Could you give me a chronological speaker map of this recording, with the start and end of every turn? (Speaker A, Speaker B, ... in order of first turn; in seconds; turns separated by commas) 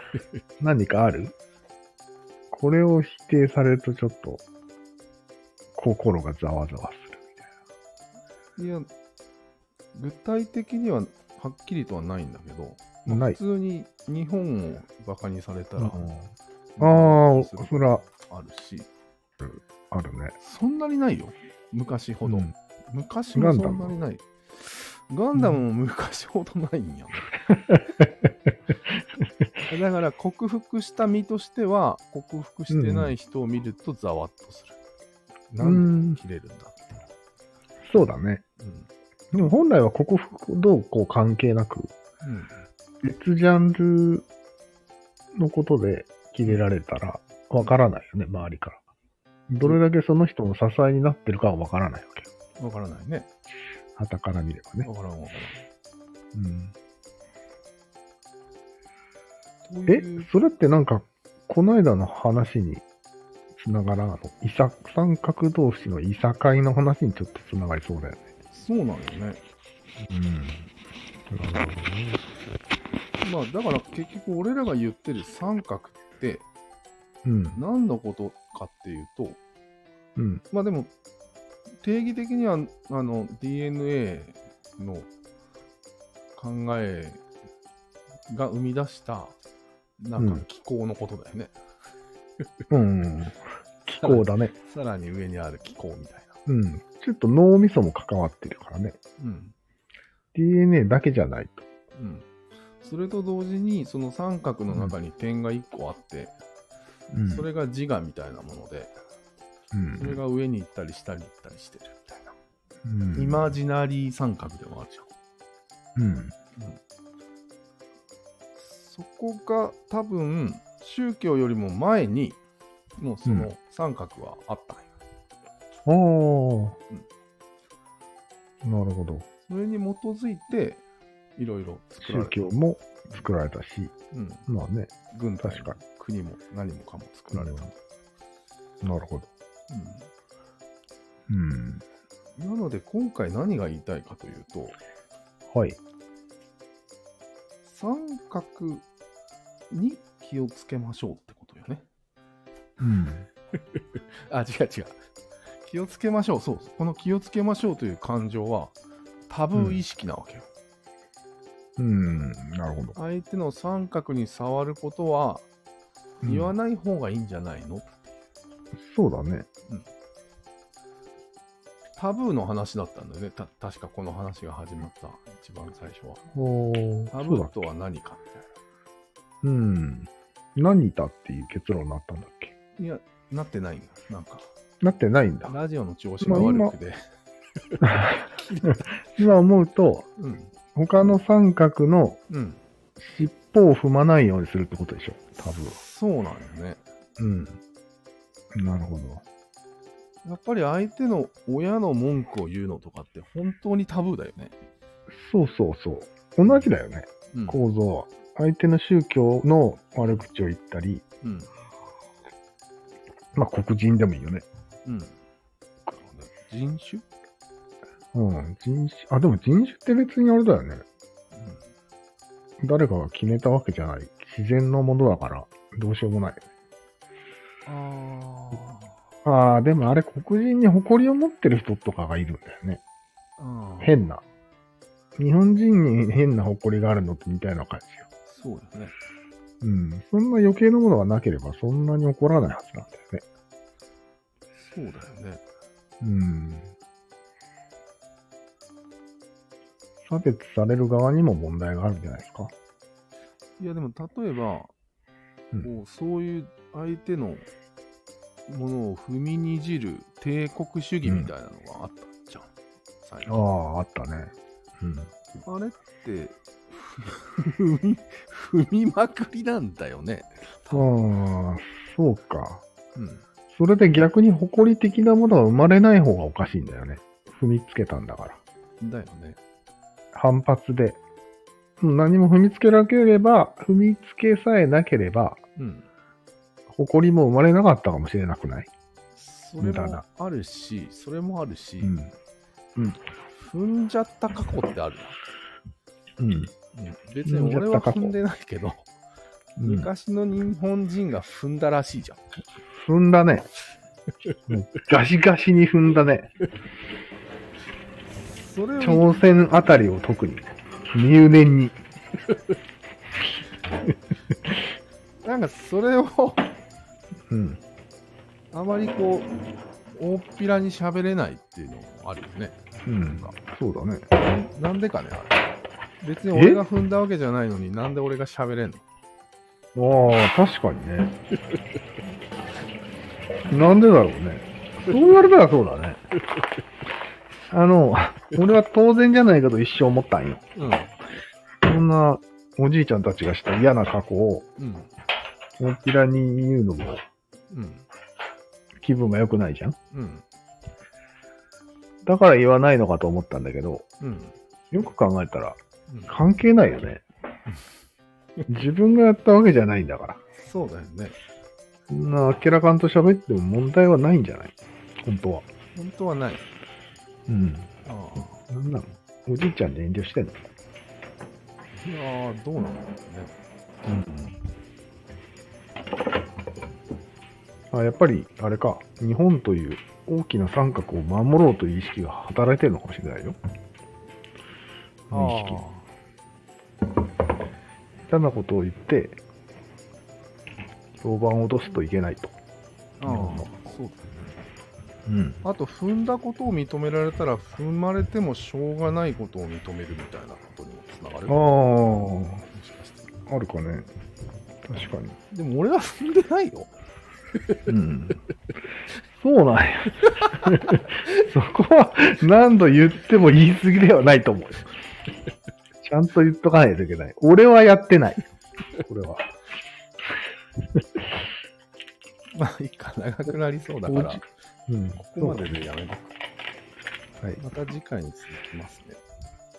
Speaker A: 0.6-1.3, Speaker A: 2.5-4.4, Speaker A: 5.7-7.4, Speaker B: 8.6-8.9, Speaker B: 9.9-16.1, Speaker A: 13.1-13.4, Speaker A: 15.8-16.3, Speaker B: 16.8-18.9, Speaker A: 16.8-18.0, Speaker A: 19.4-20.3, Speaker B: 20.4-27.3, Speaker A: 22.2-22.5, Speaker A: 23.3-23.9, Speaker A: 27.5-28.1, Speaker B: 29.6-34.8, Speaker A: 32.7-33.1, Speaker B: 35.5-37.0, Speaker A: 35.6-36.2, Speaker A: 37.9-38.4, Speaker B: 38.6-38.9, Speaker A: 39.3-41.9, Speaker B: 42.2-42.5, Speaker A: 43.0-44.3, Speaker A: 45.4-48.8, Speaker A: 49.5-52.3, Speaker B: 52.6-53.3, Speaker A: 54.0-54.9, Speaker B: 54.8-55.6, Speaker A: 56.3-56.7, Speaker B: 59.6-60.3, Speaker A: 59.9-62.8, Speaker A: 63.5-68.3, Speaker B: 68.5-69.4, Speaker A: 70.1-70.7, Speaker A: 71.3-72.2, Speaker B: 73.2-76.5, Speaker A: 77.2-77.6, Speaker B: 77.5-79.4, Speaker A: 80.2-80.4, Speaker B: 80.5-80.9, Speaker B: 81.8-85.1, Speaker B: 86.3-87.2, Speaker B: 88.3-89.3, Speaker B: 90.0-91.5, Speaker A: 90.2-90.4, Speaker A: 92.7-94.5, Speaker B: 94.0-96.4, Speaker A: 96.5-99.0, Speaker B: 99.2-99.5, Speaker A: 100.3-101.7, Speaker B: 101.9-102.2, Speaker B: 102.8-106.3, Speaker A: 107.1-107.4, Speaker B: 107.2-109.0, Speaker A: 109.7-110.2, Speaker B: 109.9-112.3, Speaker A: 112.8-113.5, Speaker B: 113.1-115.1, Speaker A: 116.0-116.3, Speaker B: 118.6-122.4, Speaker B: 123.0-124.9, Speaker A: 125.8-126.8, Speaker A: 128.6-129.2, Speaker B: 129.5-130.8, Speaker B: 131.4-132.5, Speaker A: 132.0-133.9, Speaker B: 134.1-134.4, Speaker A: 134.5-135.8, Speaker B: 135.1-137.7, Speaker A: 137.3-137.7, Speaker A: 138.8-139.3, Speaker B: 139.7-140.1, Speaker A: 141.3-141.8, Speaker B: 142.4-144.7, Speaker A: 145.5-145.8, Speaker B: 147.6-148.9, Speaker B: 149.7-151.8, Speaker A: 152.8-153.3, Speaker B: 153.5-155.0, Speaker B: 155.6-158.7, Speaker B: 159.3-160.5, Speaker A: 159.5-159.8, Speaker A: 161.8-162.9, Speaker B: 162.9-165.4, Speaker A: 166.2-166.5, Speaker B: 166.2-167.9, Speaker A: 168.8-169.5, Speaker B: 171.9-176.2, Speaker A: 176.3-177.6, Speaker B: 177.1-178.4, Speaker A: 179.4-182.5, Speaker B: 182.8-184.5, Speaker A: 184.8-185.5, Speaker B: 185.5-187.0, Speaker A: 186.2-186.7, Speaker A: 187.8-188.3, Speaker B: 188.4-188.8, Speaker A: 189.1-190.1, Speaker B: 190.2-190.5, Speaker A: 190.7-192.2, Speaker B: 192.3-192.6, Speaker A: 193.0-195.8, Speaker B: 195.3-196.8, Speaker A: 197.2-197.6, Speaker A: 198.5-199.2, Speaker B: 200.2-204.5, Speaker A: 205.1-211.0, Speaker B: 207.3-207.6, Speaker B: 211.2-211.5, Speaker A: 213.3-214.4, Speaker B: 214.8-215.2, Speaker B: 215.9-217.0, Speaker A: 218.1-220.8, Speaker B: 221.3-221.6, Speaker A: 222.6-226.4, Speaker B: 227.7-229.0, Speaker A: 229.2-232.8, Speaker B: 233.4-234.0, Speaker A: 233.8-234.2, Speaker A: 235.2-238.1, Speaker B: 238.3-238.9, Speaker A: 239.6-243.2, Speaker B: 244.5-245.4, Speaker A: 246.0-246.7, Speaker A: 250.1-252.5, Speaker B: 253.6-254.7, Speaker B: 255.6-257.5, Speaker B: 258.5-262.5, Speaker A: 261.0-261.3, Speaker B: 263.0-263.4, Speaker A: 263.3-265.1, Speaker B: 265.4-270.9, Speaker A: 270.7-272.6, Speaker B: 272.9-273.2, Speaker A: 273.5-278.4, Speaker B: 278.8-279.4, Speaker A: 280.1-281.0, Speaker A: 281.8-285.4, Speaker B: 285.6-285.9, Speaker A: 286.7-288.7, Speaker B: 289.1-291.9, Speaker A: 289.6-290.0, Speaker A: 291.8-292.1, Speaker B: 293.4-295.2, Speaker A: 296.2-296.5, Speaker B: 296.7-298.9, Speaker A: 297.2-298.1, Speaker A: 299.6-299.9, Speaker B: 299.6-302.2, Speaker A: 302.8-303.5, Speaker A: 304.5-306.3, Speaker B: 308.1-309.2, Speaker A: 308.8-311.8, Speaker B: 315.2-316.5, Speaker A: 317.3-317.6, Speaker B: 318.5-319.3, Speaker B: 319.9-323.3, Speaker A: 322.9-324.0, Speaker B: 324.1-328.8, Speaker A: 326.3-326.6, Speaker A: 329.7-331.1, Speaker A: 333.5-336.0, Speaker A: 337.5-340.4, Speaker B: 340.5-340.9, Speaker A: 341.6-344.5, Speaker B: 344.6-344.9, Speaker A: 345.6-347.0, Speaker B: 347.5-347.9, Speaker A: 348.8-349.8, Speaker B: 349.9-350.2, Speaker A: 352.0-353.9, Speaker B: 354.0-354.3, Speaker A: 354.7-357.0, Speaker A: 358.5-360.2, Speaker B: 360.3-361.2, Speaker A: 361.9-365.4, Speaker B: 365.7-366.5, Speaker A: 367.3-367.7, Speaker B: 367.8-368.4, Speaker A: 368.4-370.4, Speaker B: 371.8-373.3, Speaker A: 377.7-383.4, Speaker A: 385.1-385.6, Speaker B: 385.1-385.9, Speaker A: 388.1-389.2, Speaker A: 391.0-392.4, Speaker B: 393.0-394.4, Speaker A: 393.0-393.5, Speaker A: 395.1-395.4, Speaker B: 395.4-401.4, Speaker A: 401.3-402.4, Speaker B: 402.4-403.1, Speaker A: 403.3-403.9, Speaker A: 404.6-405.2, Speaker B: 405.3-406.7, Speaker A: 407.7-408.2, Speaker A: 409.2-414.7, Speaker A: 415.8-418.2, Speaker A: 418.8-419.3, Speaker B: 422.3-424.2, Speaker A: 423.9-425.6, Speaker B: 425.0-426.1, Speaker B: 427.4-429.0